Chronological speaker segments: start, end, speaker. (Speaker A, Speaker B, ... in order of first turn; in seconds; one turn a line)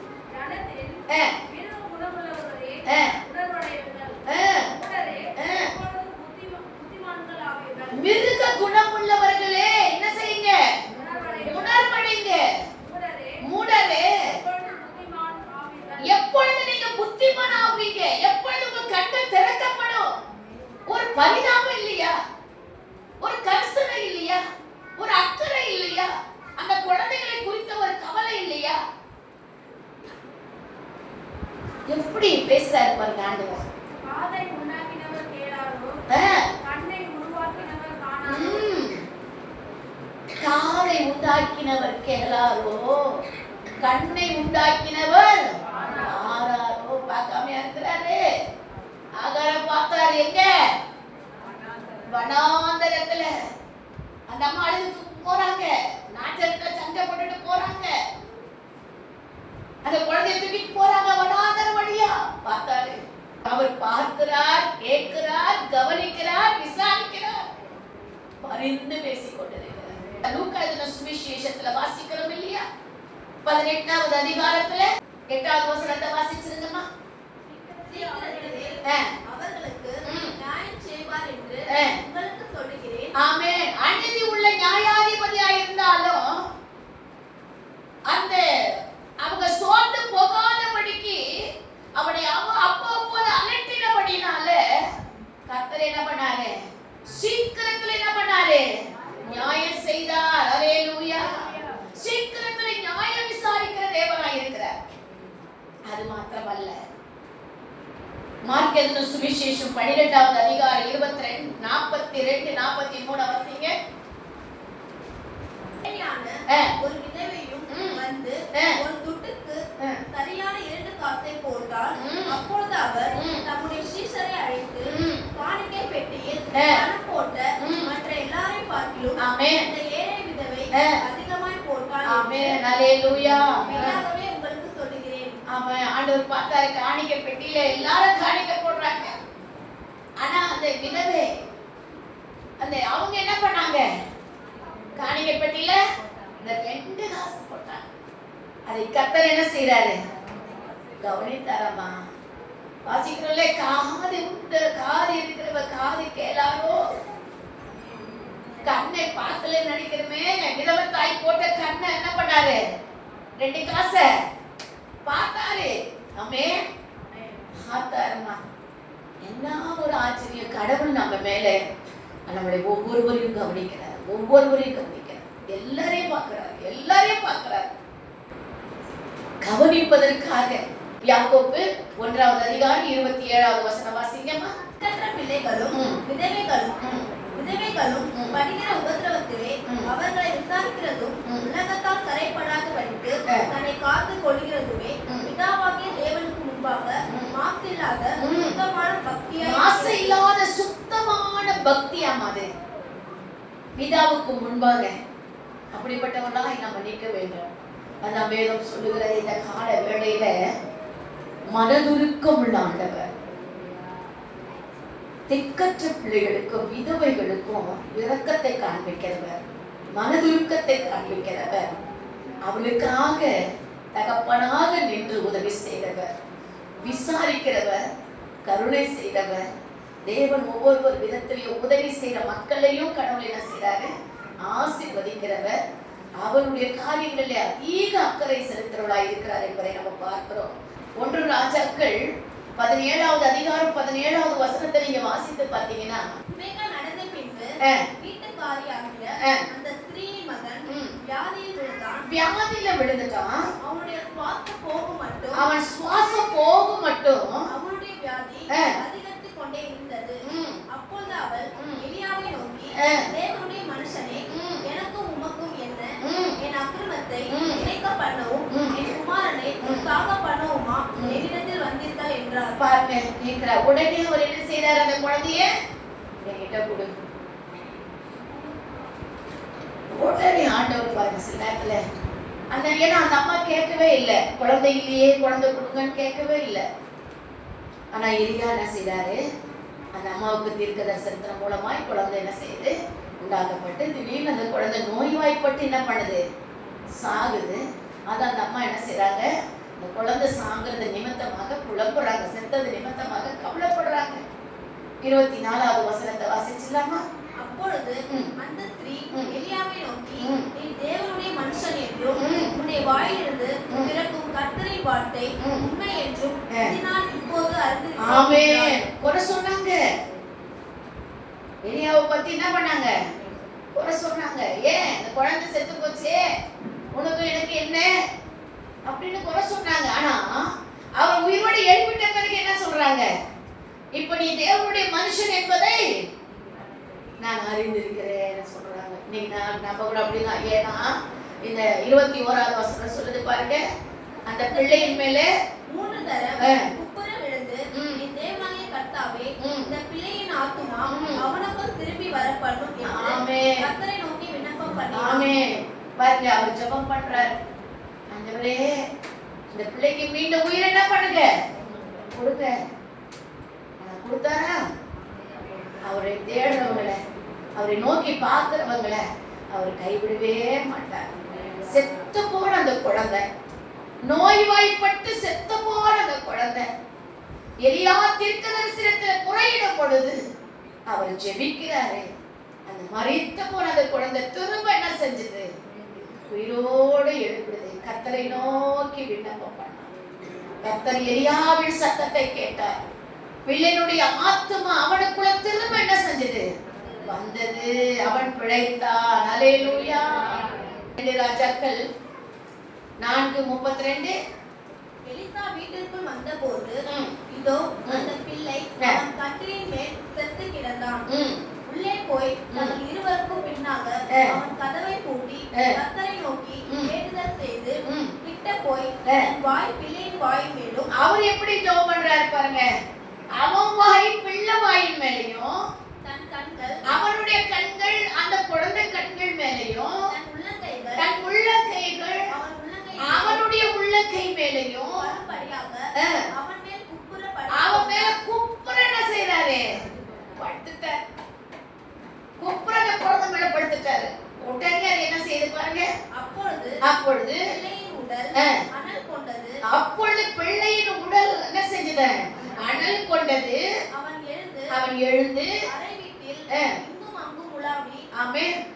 Speaker A: 0.3-8.4
Speaker B: 1.1-1.3
Speaker B: 2.9-3.1
Speaker B: 4.3-4.7
Speaker B: 5.3-5.7
Speaker B: 7.9-10.6
Speaker A: 10.9-11.9
Speaker B: 11.4-12.4
Speaker A: 12.8-13.4
Speaker B: 13.4-14.3
Speaker A: 14.1-16.2
Speaker B: 16.0-20.1
Speaker B: 20.9-22.1
Speaker B: 23.2-24.4
Speaker B: 25.0-28.8
Speaker B: 31.9-33.6
Speaker A: 34.0-36.0
Speaker B: 36.1-36.5
Speaker A: 36.6-38.7
Speaker B: 38.2-39.0
Speaker B: 40.4-43.2
Speaker B: 43.8-48.2
Speaker A: 45.7-46.1
Speaker B: 49.2-50.5
Speaker B: 52.1-53.3
Speaker B: 54.3-57.9
Speaker B: 59.8-67.5
Speaker B: 68.4-72.6
Speaker B: 73.5-76.8
Speaker A: 77.5-78.8
Speaker C: 77.9-83.1
Speaker B: 78.8-79.1
Speaker B: 80.0-80.4
Speaker B: 81.7-82.0
Speaker B: 83.2-86.4
Speaker B: 88.1-91.3
Speaker B: 92.0-94.8
Speaker B: 95.5-98.7
Speaker B: 99.2-104.8
Speaker B: 105.9-106.8
Speaker B: 108.5-113.7
Speaker C: 115.8-132.6
Speaker B: 116.5-116.8
Speaker B: 117.7-118.0
Speaker B: 118.5-118.8
Speaker B: 122.0-122.4
Speaker B: 123.1-123.5
Speaker B: 124.8-125.3
Speaker B: 126.5-126.8
Speaker B: 127.6-127.9
Speaker B: 129.2-129.7
Speaker B: 132.1-134.0
Speaker C: 133.7-135.4
Speaker B: 135.5-139.1
Speaker B: 140.2-141.3
Speaker B: 142.6-143.9
Speaker B: 145.0-145.8
Speaker B: 146.4-147.9
Speaker B: 148.7-150.0
Speaker B: 151.0-152.0
Speaker B: 152.8-156.9
Speaker B: 158.6-162.6
Speaker B: 163.4-164.1
Speaker B: 165.1-166.7
Speaker B: 167.5-168.4
Speaker B: 169.2-171.6
Speaker B: 172.3-177.7
Speaker B: 179.4-184.5
Speaker C: 184.8-186.8
Speaker B: 185.7-186.0
Speaker C: 187.3-200.2
Speaker B: 188.1-188.4
Speaker B: 198.2-198.6
Speaker B: 199.4-202.5
Speaker B: 203.8-204.9
Speaker B: 205.7-207.4
Speaker B: 208.0-210.3
Speaker B: 211.5-213.1
Speaker B: 215.3-219.4
Speaker B: 219.9-221.8
Speaker B: 222.4-223.4
Speaker B: 223.9-226.1
Speaker B: 226.8-227.8
Speaker B: 228.4-229.4
Speaker B: 230.0-235.6
Speaker B: 236.2-242.0
Speaker B: 242.6-246.0
Speaker C: 246.3-252.1
Speaker B: 247.6-247.9
Speaker B: 249.2-249.4
Speaker B: 250.7-250.9
Speaker B: 252.1-253.5
Speaker C: 253.6-255.4
Speaker B: 255.3-257.5
Speaker C: 257.5-272.6
Speaker B: 258.5-258.8
Speaker B: 260.2-260.6
Speaker B: 262.8-263.1
Speaker B: 264.3-264.6
Speaker B: 266.0-266.4
Speaker B: 267.3-267.7
Speaker B: 268.5-268.9
Speaker B: 269.6-269.9
Speaker B: 270.9-271.2
Speaker B: 272.6-275.5
Speaker B: 276.2-276.9
Speaker B: 279.9-281.8
Speaker B: 282.5-286.6
Speaker B: 287.9-289.2
Speaker B: 289.9-296.2
Speaker B: 296.9-299.3
Speaker B: 299.8-304.2
Speaker B: 305.0-307.0
Speaker C: 307.4-318.8
Speaker B: 310.2-310.5
Speaker B: 312.2-312.5
Speaker B: 315.4-315.6
Speaker B: 318.0-319.8
Speaker B: 321.6-322.9
Speaker B: 323.7-326.2
Speaker B: 326.9-327.9
Speaker B: 328.9-330.4
Speaker B: 331.0-333.1
Speaker B: 333.9-335.8
Speaker B: 337.2-343.6
Speaker B: 344.3-345.3
Speaker C: 344.4-345.0
Speaker C: 345.7-355.4
Speaker B: 346.4-346.7
Speaker B: 347.7-348.0
Speaker B: 349.4-349.7
Speaker B: 350.9-351.2
Speaker B: 352.8-353.6
Speaker B: 354.9-357.4
Speaker B: 358.1-358.8
Speaker B: 359.5-361.3
Speaker B: 362.1-362.6
Speaker B: 363.8-364.6
Speaker B: 365.9-367.0
Speaker B: 367.6-369.0
Speaker B: 369.5-373.2
Speaker B: 374.0-376.7
Speaker B: 377.6-380.2
Speaker B: 380.9-382.1
Speaker B: 382.7-385.5
Speaker B: 386.3-389.9
Speaker B: 390.6-392.8
Speaker B: 393.5-396.4
Speaker B: 397.1-401.8
Speaker B: 403.0-404.1
Speaker C: 405.1-411.0
Speaker B: 406.8-407.1
Speaker B: 411.1-411.4
Speaker C: 411.6-420.9
Speaker B: 412.5-412.8
Speaker B: 414.1-414.4
Speaker B: 415.5-415.8
Speaker B: 417.8-418.1
Speaker B: 420.9-422.7
Speaker B: 423.4-425.6
Speaker C: 426.0-426.9
Speaker B: 426.9-430.1
Speaker C: 430.1-431.1
Speaker B: 431.0-432.3
Speaker C: 432.3-433.4
Speaker B: 433.0-435.1
Speaker C: 434.9-438.1
Speaker B: 436.0-436.3
Speaker B: 437.5-439.8
Speaker B: 440.4-441.0
Speaker B: 442.4-445.9
Speaker C: 446.1-446.8
Speaker B: 446.8-447.5
Speaker C: 447.4-449.6
Speaker B: 448.4-448.6
Speaker B: 449.7-453.6
Speaker C: 452.4-452.9
Speaker C: 453.9-454.7
Speaker B: 454.7-455.6
Speaker C: 455.7-458.0
Speaker B: 458.1-458.5